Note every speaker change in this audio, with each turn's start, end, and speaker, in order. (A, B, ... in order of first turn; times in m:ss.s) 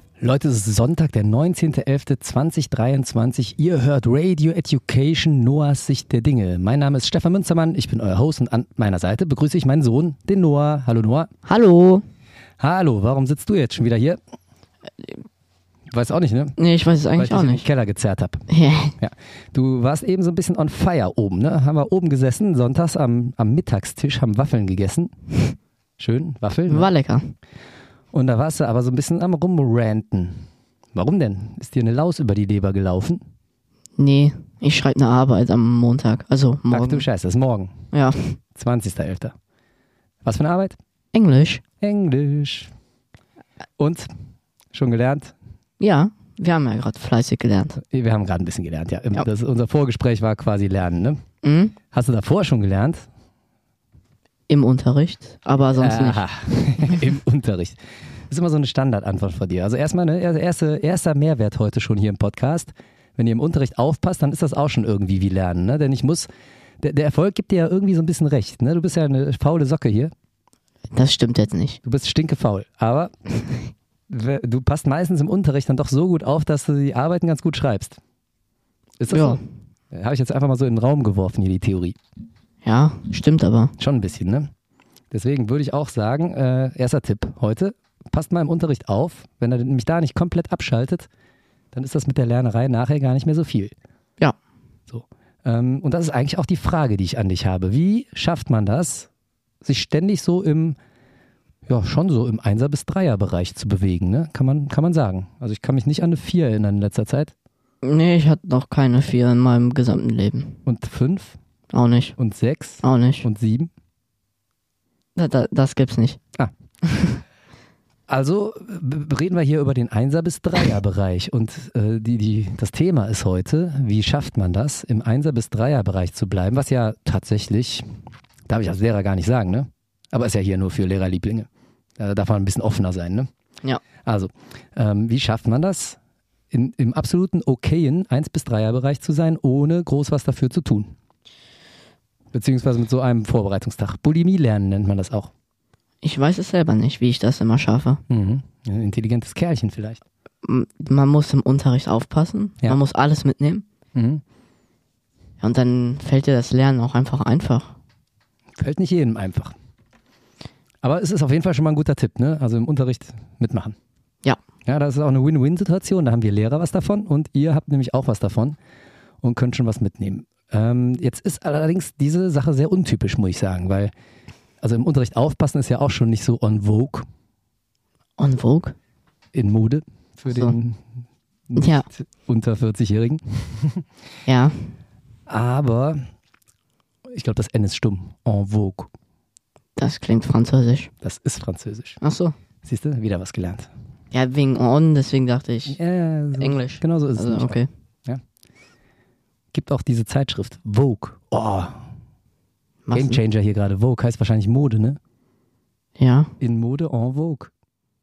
0:00.2-0:11.3 A
0:11.4-0:12.0 B
0:12.6-0:14.2 A
0:15.9-0:16.6 A
0:16.6-0:17.6 B
0:17.2-0:18.5 A
0:18.5-0:19.0 B
0:19.0-0:25.1 A
0:26.0-0:26.9 A
0:26.7-0:27.4 B
0:28.1-0:33.2 A
0:34.0-0:37.1 B
0:36.7-0:37.7 A
0:37.9-0:38.4 B
0:38.6-0:39.3 A
0:40.2-0:40.8 A
0:41.1-0:41.6 B
0:41.8-0:42.7 A
0:43.8-0:44.1 A
0:44.7-0:45.3 A
0:45.8-0:47.8 B
0:47.9-0:51.2 A
0:51.4-0:51.8 B
0:51.9-0:53.1 A
0:54.5-0:56.3 B
0:55.8-0:57.8 A
0:58.3-1:06.3 A
1:06.8-1:10.1 A
1:10.9-1:11.8 B
1:11.8-1:13.1 A
1:14.1-1:18.0 A
1:19.0-1:19.4 A
1:19.1-1:19.4 B
1:19.9-1:22.0 A
1:22.6-1:23.7 B
1:23.8-1:24.5 A
1:25.1-1:31.1 A
1:31.7-1:33.7 A
1:34.9-1:39.1 A
1:39.6-1:40.8 A
1:41.7-1:47.3 A
1:47.8-1:50.6 B
1:50.6-1:51.4 A
1:51.7-1:52.2 B
1:52.2-1:53.7 A
1:52.8-1:53.3 B
1:55.2-1:56.2 B
1:56.9-1:57.2 B
1:58.1-2:07.9 A
2:08.5-2:13.3 A
2:14.0-2:16.0 A
2:16.5-2:20.9 A
2:22.3-2:25.3 A
2:26.0-2:28.0 B
2:28.1-2:30.0 A
2:30.4-2:33.7 B
2:34.0-2:34.2 A
2:35.4-2:37.8 B
2:38.6-2:39.5 A
2:40.8-2:43.8 A
2:44.6-2:48.6 A
2:49.2-2:53.9 A
2:54.6-2:57.1 A
2:58.2-2:58.8 B
2:59.3-3:00.8 A
3:00.3-3:00.6 B
3:01.5-3:03.8 A
3:01.6-3:01.9 B
3:04.3-3:04.7 B
3:05.3-3:06.0 A
3:07.1-3:08.9 A
3:09.8-3:10.9 B
3:11.0-3:12.0 A
3:12.0-3:12.3 B
3:12.6-3:13.7 A
3:14.1-3:15.8 B
3:15.7-3:18.2 A
3:16.4-3:17.7 B
3:19.5-3:21.8 A
3:22.8-3:23.2 B
3:22.9-3:25.0 A
3:26.0-3:26.3 B
3:26.4-3:27.5 A